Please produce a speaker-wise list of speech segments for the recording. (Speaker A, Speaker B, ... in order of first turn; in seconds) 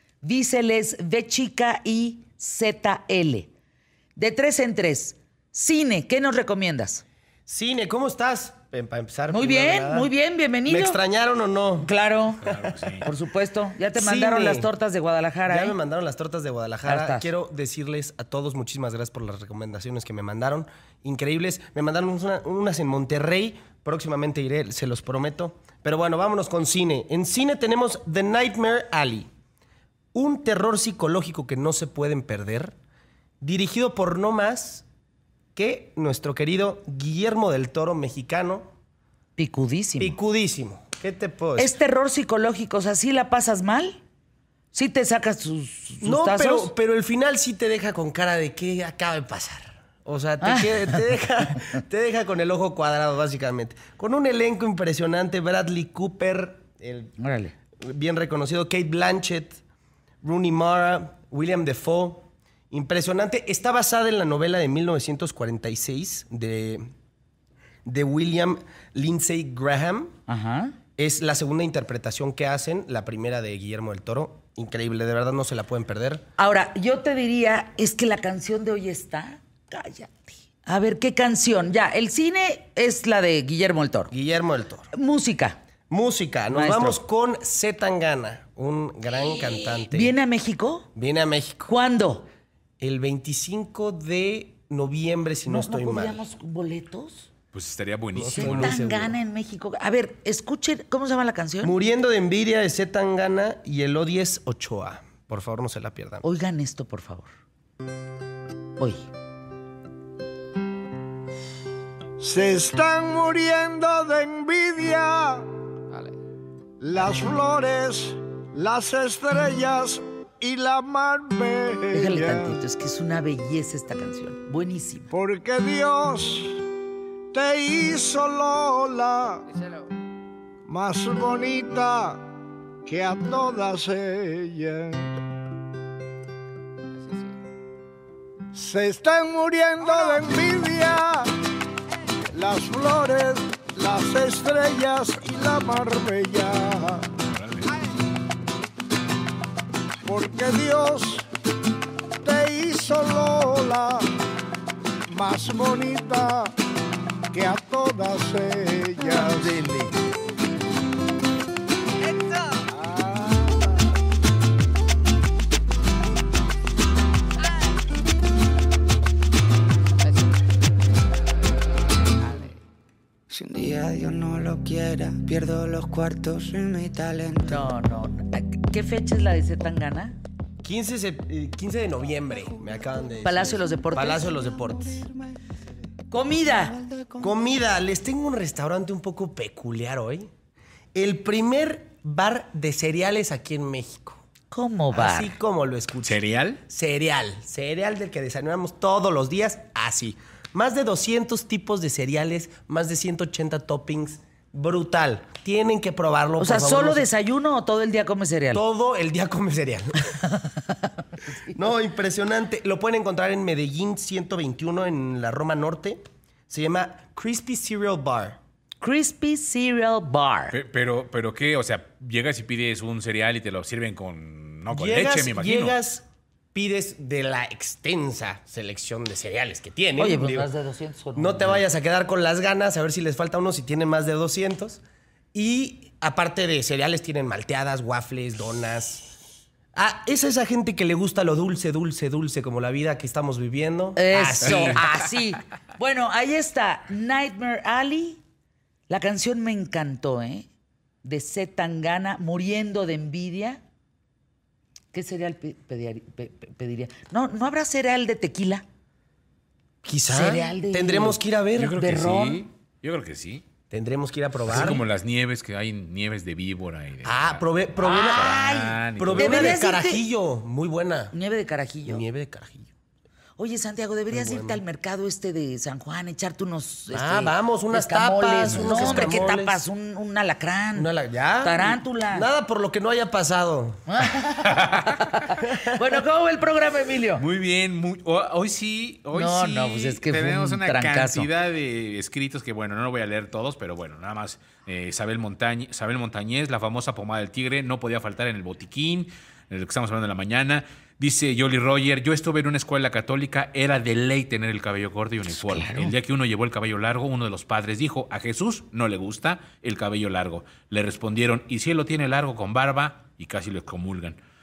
Speaker A: 0.2-3.5, 4.2-7.0, 9.3-11.0, 11.8-15.8, 16.8-17.3, 39.4-40.2, 41.6-44.0, 44.7-46.7, 50.4-51.1, 57.2-57.5, 70.3-70.8, 76.4-84.1, 84.9-85.6, 86.5-87.0, 89.8-90.9, 91.7-92.3, 95.5-97.3, 98.2-101.7, 106.2-107.3, 108.8-109.0, 121.9-125.1, 159.2-159.9, 177.4-180.2, 183.2-184.3, 186.1-186.9, 194.5-195.3, 206.4-208.6, 218.8-220.6, 230.0-231.6, 243.9-248.2, 248.9-250.5, 251.0-253.6, 254.9-258.6, 260.1-262.4, 267.8-270.0, 271.1-272.0, 273.4-282.3, 283.9-287.2, 289.1-291.3, 305.3-305.9
Speaker B: 7.5-10.1, 10.7-11.9, 13.9-14.7, 15.5-29.3, 30.1-32.7, 33.4-34.9, 35.5-38.7, 40.0-41.7, 46.0-57.1, 57.8-59.6, 60.2-66.9, 67.8-70.1, 71.0-76.2, 84.1-84.9, 85.9-90.1, 90.9-91.7, 92.8-96.2, 98.1-99.2, 101.6-106.2, 180.6-185.1, 187.2-190.3, 190.9-194.2, 194.9-207.1, 208.5-210.0, 211.5-218.4, 224.7-230.5, 231.2-234.8, 235.3-239.1, 239.7-244.8, 259.8-261.8, 263.7-264.8, 267.0-271.1, 271.9-272.7, 274.1-274.6, 276.9-279.6, 280.7-283.8, 285.3-285.8
Speaker C: 12.4-13.1, 97.5-98.8, 147.3-147.7, 196.0-196.6, 220.5-225.8, 244.4-244.7, 261.6-263.4, 264.5-269.6, 278.5-279.1, 287.2-314.2
Speaker D: 112.2-115.5, 116.8-122.6, 125.1-126.6, 127.3-129.4, 130.7-132.2, 132.8-135.1, 138.5-141.3, 142.3-147.1, 150.0-151.2, 152.2-154.1, 155.1-156.5, 157.3-159.6, 162.7-163.7
Speaker E: 173.3-177.4, 186.9-187.2